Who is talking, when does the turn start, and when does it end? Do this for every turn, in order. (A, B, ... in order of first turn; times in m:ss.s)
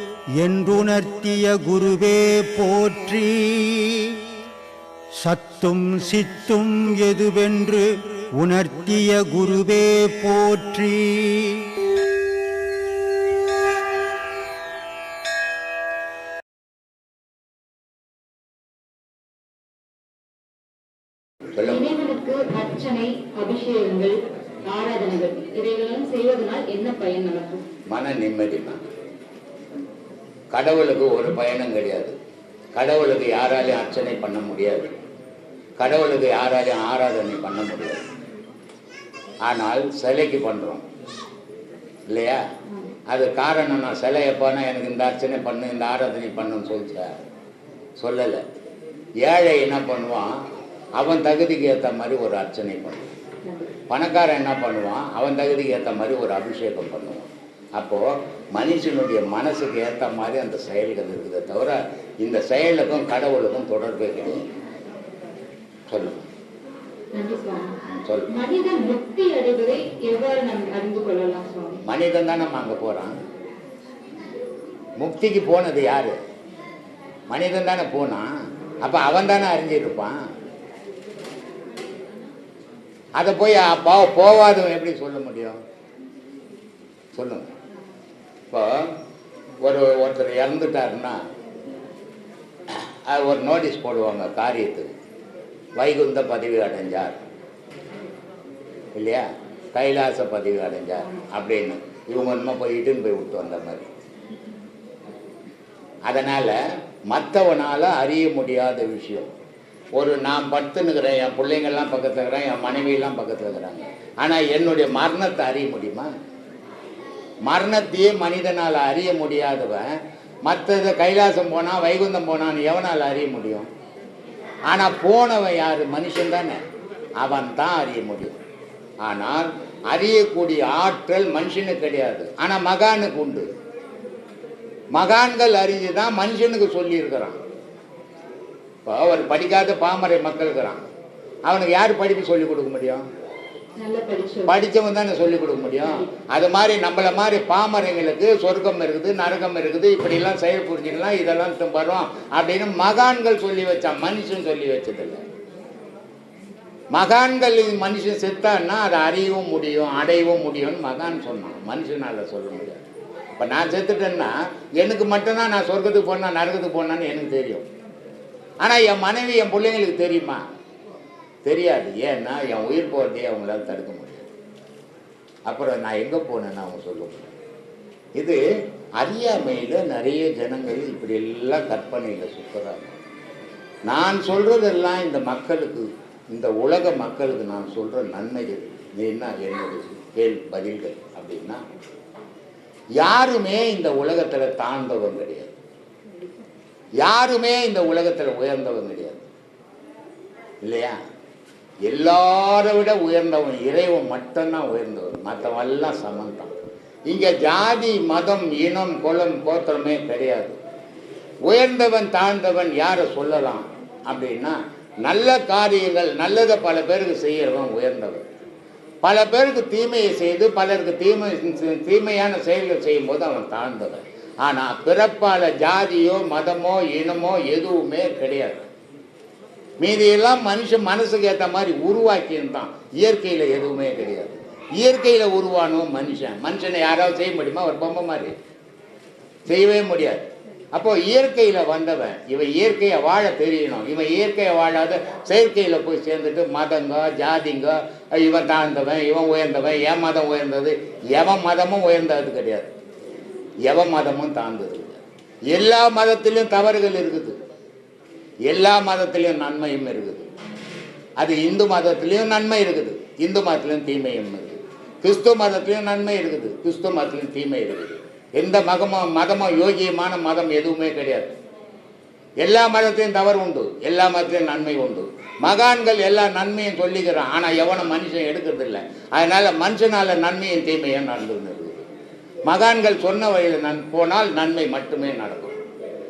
0:00.4-0:04.2 A
0:05.2-0:11.7 A
0:21.6-0:21.9 B
0:21.7-0:27.6 C
0:27.9-0:28.8 B
0:30.5-0:32.2 B
0:32.7-0:34.9 B
0:35.8-0:38.0 B
0:39.5-0:40.9 B
0:42.1-0:42.4 B
0:43.1-0:47.1 B
0:48.0-0:48.4 B
0:49.2-0:50.3 B
0:51.0-0:53.1 B
0:53.4-0:53.7 C
0:53.9-1:04.4 B
1:05.9-1:06.3 B
1:07.2-1:07.7 C
1:08.0-1:08.3 B
1:08.3-1:11.8 C
1:11.9-1:13.1 B
1:15.0-1:16.2 B
1:17.3-1:18.3 B
1:18.8-1:20.2 B
1:23.2-1:25.6 B
1:27.1-1:27.5 B
1:29.6-1:31.2 B
1:33.1-1:34.9 B
1:35.8-1:37.2 B
1:39.0-1:43.9 B
1:46.1-1:46.6 B
1:47.1-1:49.3 B
1:50.0-1:56.1 B
1:57.5-1:59.9 B
2:00.5-2:03.7 B
2:04.7-2:06.6 B
2:07.2-2:08.4 B
2:09.0-2:13.5 B
2:14.9-2:17.4 B
2:18.8-2:20.8 B
2:21.4-2:23.0 B
2:23.8-2:24.6 C
2:24.5-2:35.2 B
2:25.8-2:26.1 C
2:36.9-2:42.8 B
2:43.4-2:47.7 B
2:48.6-2:50.4 B
2:51.4-2:54.3 B
2:55.5-2:57.3 B
2:59.0-3:02.9 B
3:03.9-3:11.6 B
3:13.0-3:15.6 B
3:17.0-3:19.3 B
3:20.6-3:21.0 B
3:21.8-3:26.5 B
3:27.1-3:30.6 B
3:31.5-3:38.2 B
3:39.0-3:48.7 B
3:49.8-3:58.3 B
3:59.5-4:12.7 B
4:13.7-4:17.4 B
4:18.5-4:20.3 B
4:21.2-4:31.3 B
4:32.4-4:41.8 B
4:42.5-4:45.5 B